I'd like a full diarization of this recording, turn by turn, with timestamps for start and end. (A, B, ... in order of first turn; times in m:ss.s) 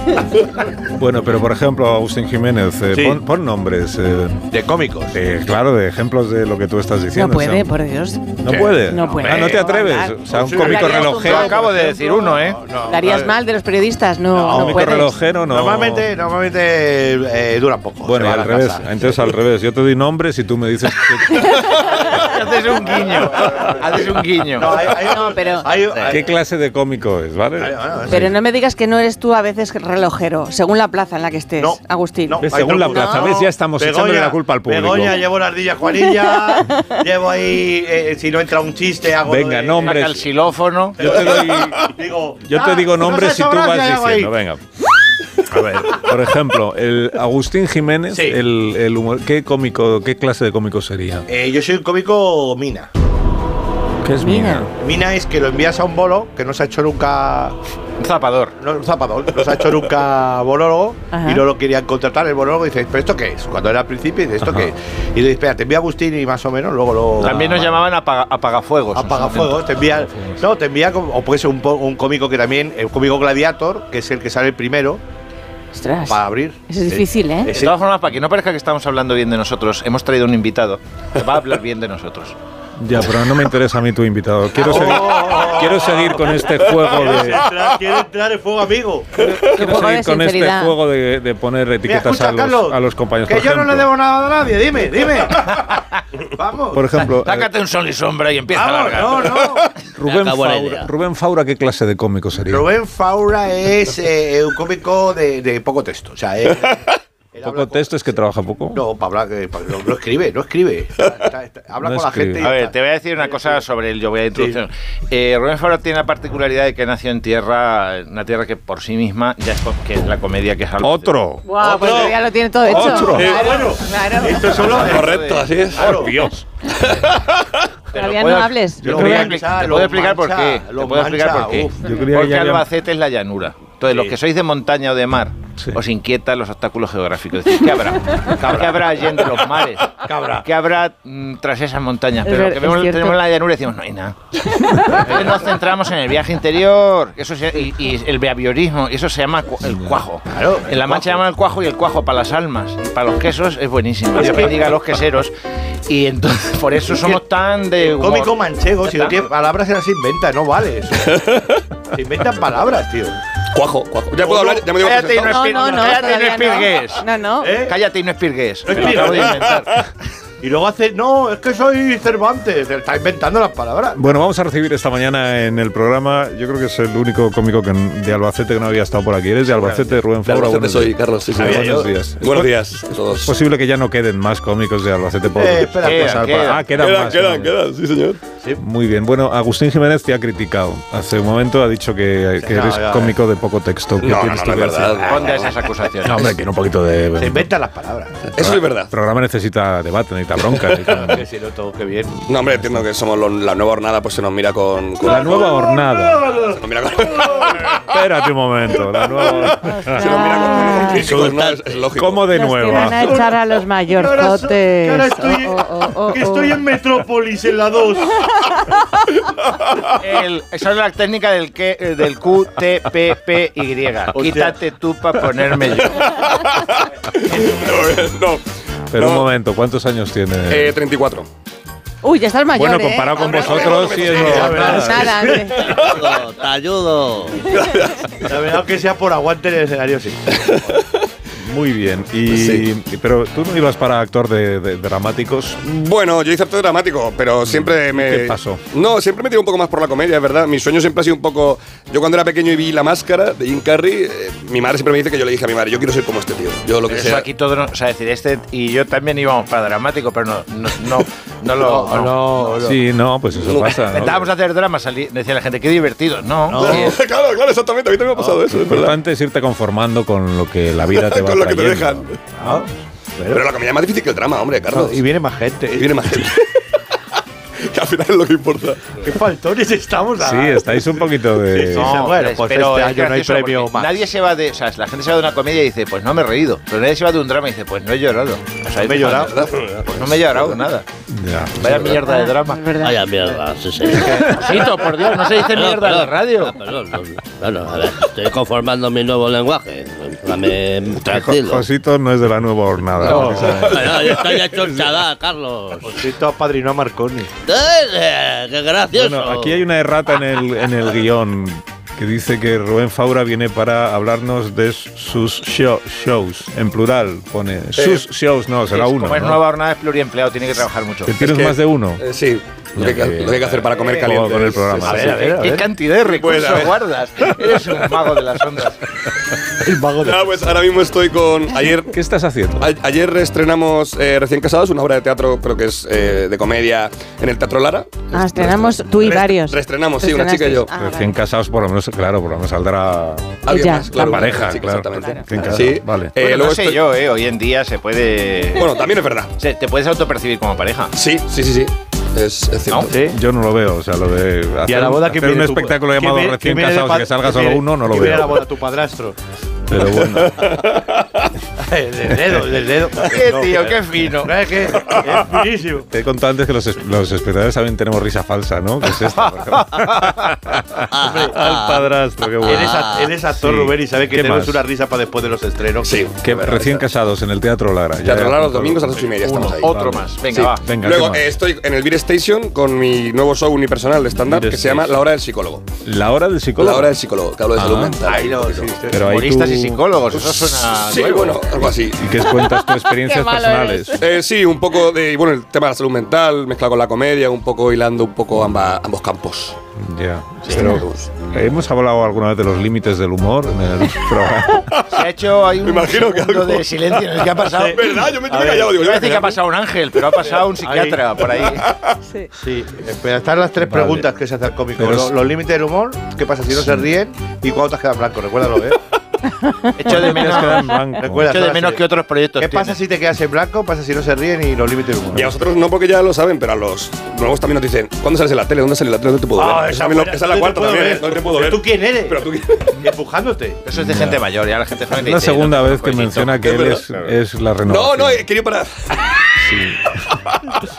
0:00.9-0:04.5 A
0:02.9-0:03.2 B
0:04.5-0:05.2 B
0:05.1-0:07.7 A
0:07.1-0:12.0 C
0:08.4-0:11.6 A
0:08.4-0:13.3 B
0:10.8-0:12.6 D
0:12.9-0:15.2 C
0:14.3-0:19.3 B
0:14.5-0:16.1 A
0:18.0-0:21.8 A
0:21.4-0:22.0 C
0:21.9-0:24.7 D
0:24.5-0:26.3 B
0:25.0-0:25.7 C
0:26.1-0:28.3 A
0:27.6-0:28.3 B
0:28.1-0:33.3 C
0:31.6-0:40.1 B
0:32.4-0:35.3 A
0:36.5-0:37.0 C
0:39.2-0:40.2 A
0:39.8-0:41.5 D
0:41.0-0:44.3 B
0:41.0-0:41.9 A
0:42.4-0:44.6 A
0:45.4-0:51.2 A
0:48.1-0:48.4 B
0:51.3-0:52.9 B
0:54.0-0:54.7 A
0:54.2-0:54.7 C
0:54.8-0:57.6 B
0:58.0-0:58.5 D
0:58.6-1:07.8 B
1:01.1-1:01.4 C
1:04.4-1:04.7 A
1:07.2-1:09.7 D
1:08.9-1:15.0 B
1:09.9-1:10.4 A
1:15.7-1:17.5 C
1:16.1-1:17.8 B
1:17.5-1:22.4 D
1:22.8-1:27.4 A
1:24.5-1:29.2 B
1:29.2-1:33.9 A
1:29.4-1:30.8 C
1:31.8-1:37.0 B
1:36.7-1:37.5 A
1:37.0-1:40.2 D
1:38.5-1:39.7 B
1:39.9-1:42.7 A
1:40.1-1:40.9 E
1:42.5-1:48.0 B
1:47.4-1:48.8 A
1:48.7-1:53.6 B
1:51.8-1:52.5 A
1:52.4-2:01.1 D
1:54.3-1:54.6 B
2:00.8-2:01.4 A
2:01.4-2:04.4 C
2:01.6-2:02.1 F
2:02.6-2:03.4 A
2:02.8-2:06.2 B
2:03.1-2:03.6 F
2:04.5-2:05.5 D
2:04.6-2:06.0 F
2:05.8-2:06.4 A
2:06.7-2:07.6 F
2:07.9-2:11.9 B
2:07.9-2:09.1 C
2:08.8-2:09.3 A
2:08.8-2:24.2 D
2:11.8-2:12.7 A
2:13.9-2:14.2 B
2:18.3-2:19.1 B
2:20.0-2:20.4 B
2:22.2-2:23.2 C
2:24.9-2:35.3 D
2:25.0-2:25.4 B
2:29.6-2:30.0 A
2:30.3-2:31.2 B
2:34.1-2:34.8 B
2:35.9-2:39.2 D
2:36.9-2:37.2 B
2:37.8-2:41.2 B
2:41.2-2:41.5 F
2:41.9-2:43.2 B
2:43.5-2:46.0 F
2:44.3-2:49.9 D
2:45.1-2:47.6 C
2:47.4-2:47.7 B
2:48.6-2:49.6 B
2:50.4-2:54.0 B
2:53.9-3:07.5 A
2:59.6-2:59.9 B
3:00.2-3:03.3 F
3:01.4-3:01.9 B
3:05.3-3:06.6 B
3:05.8-3:06.6 D
3:06.8-3:08.2 F
3:08.6-3:15.3 A
3:12.4-3:13.2 B
3:14.0-3:15.4 F
3:15.0-3:16.3 B
3:15.1-3:16.4 D
3:16.0-3:17.5 A
3:17.2-3:18.3 B
3:18.3-3:18.9 F
3:18.4-3:21.2 A
3:20.6-3:22.2 B
3:22.3-3:25.6 F
3:25.0-3:26.3 A
3:25.1-3:27.6 B
3:26.4-3:27.8 F
3:27.9-3:30.2 A
3:29.4-3:32.3 F
3:29.6-3:31.1 C
3:30.8-3:31.4 B
3:31.0-3:31.8 E
3:32.0-3:33.2 A
3:32.3-3:36.6 C
3:32.7-3:33.4 B
3:33.9-3:38.2 B
3:40.0-3:46.1 D
3:44.1-3:44.6 B
3:46.0-3:48.4 F
3:47.2-3:48.1 B
3:48.9-3:50.8 A
3:48.9-3:49.3 F
3:50.5-3:51.3 F
3:52.0-3:55.7 C
3:52.5-3:55.3 A
3:53.2-3:54.5 F
3:53.2-3:55.6 B
3:55.6-3:57.5 E
3:55.6-3:56.0 F
3:57.5-3:58.1 F
3:58.2-4:00.5 B
4:00.4-4:00.8 F
4:01.4-4:05.6 A
4:02.3-4:02.7 F
4:05.6-4:17.3 F
4:07.4-4:08.6 A
4:16.9-4:22.6 D
4:21.6-4:22.8 B
4:22.6-4:24.3 A
4:23.4-4:23.8 F
4:23.9-4:26.9 D
4:26.5-4:27.0 B
4:26.6-4:29.0 F
4:28.1-4:28.4 B
4:28.6-4:32.1 A
4:30.9-4:32.2 F
4:32.4-4:33.4 B
4:33.3-4:35.0 F
4:34.7-4:36.2 B
4:35.7-4:36.8 F
4:37.6-4:39.0 F
4:39.0-4:44.0 B
4:40.2-4:42.1 A
4:41.7-4:50.8 D
4:48.7-4:50.4 B
4:49.1-4:49.8 F
4:51.1-4:51.9 A
4:51.6-4:52.7 D
4:51.9-4:53.0 C
4:52.8-4:54.7 E
4:53.9-4:56.6 D
4:55.2-5:01.6 E
5:00.9-5:05.0 A
5:03.0-5:03.7 B
5:03.1-5:04.3 F
5:03.6-5:06.0 E
5:05.8-5:07.3 B
5:07.4-5:09.6 E
5:08.9-5:19.4 A
5:17.8-5:18.0 F
5:18.7-5:21.2 D
5:21.0-5:22.0 A
5:21.2-5:25.1 F
5:22.8-5:25.3 A
5:23.8-5:25.7 B
5:24.8-5:28.8 D
5:26.0-5:26.8 F
5:29.5-5:30.3 B
5:30.0-5:31.9 F
5:31.9-5:32.7 A
5:32.6-5:40.7 F
5:38.1-5:41.1 C
5:40.7-5:46.1 A
5:43.4-5:46.8 F
5:43.5-5:45.3 C
5:46.2-5:48.8 D
5:48.6-5:49.3 F
5:49.4-5:50.9 D
5:50.9-5:52.9 F
5:52.9-5:53.1 B
5:53.0-5:58.4 A
5:54.6-5:59.2 B
5:59.7-6:00.6 A
6:00.0-6:01.2 F
6:01.6-6:05.9 B
6:03.0-6:04.4 D
6:05.9-6:14.6 A
6:10.9-6:11.8 E
6:10.9-6:11.4 B
6:12.4-6:16.3 B
6:12.5-6:13.1 E
6:15.8-6:16.8 F
6:16.2-6:21.4 A
6:18.0-6:19.7 F
6:19.4-6:20.6 D
6:20.3-6:25.6 F
6:24.2-6:25.0 A
6:25.8-6:27.0 A
6:26.6-6:28.8 F
6:27.6-6:28.0 A
6:27.7-6:29.1 B
6:28.9-6:30.3 A
6:28.9-6:31.4 D
6:30.5-6:32.1 F
6:31.6-6:34.0 A
6:32.5-6:34.0 C
6:34.0-6:39.6 F
6:39.8-6:44.7 A
6:40.5-6:41.1 F
6:44.9-6:48.0 D
6:45.6-6:49.4 F
6:47.5-6:48.8 B
6:48.6-6:51.6 D
6:50.5-6:51.0 B
6:51.5-6:52.0 F
6:52.4-6:58.8 B
6:53.6-6:54.1 A
6:54.7-6:55.1 A
6:56.5-6:56.8 A
6:59.4-6:59.9 C
6:59.8-7:02.8 D
6:59.8-7:01.4 A
7:01.0-7:01.8 B
7:02.4-7:05.3 B
7:05.1-7:12.8 F
7:09.4-7:12.3 B
7:12.8-7:13.6 B
7:13.6-7:16.7 D
7:13.7-7:14.2 A
7:14.9-7:18.2 A
7:16.4-7:17.0 F
7:17.7-7:19.3 F
7:19.4-7:20.0 A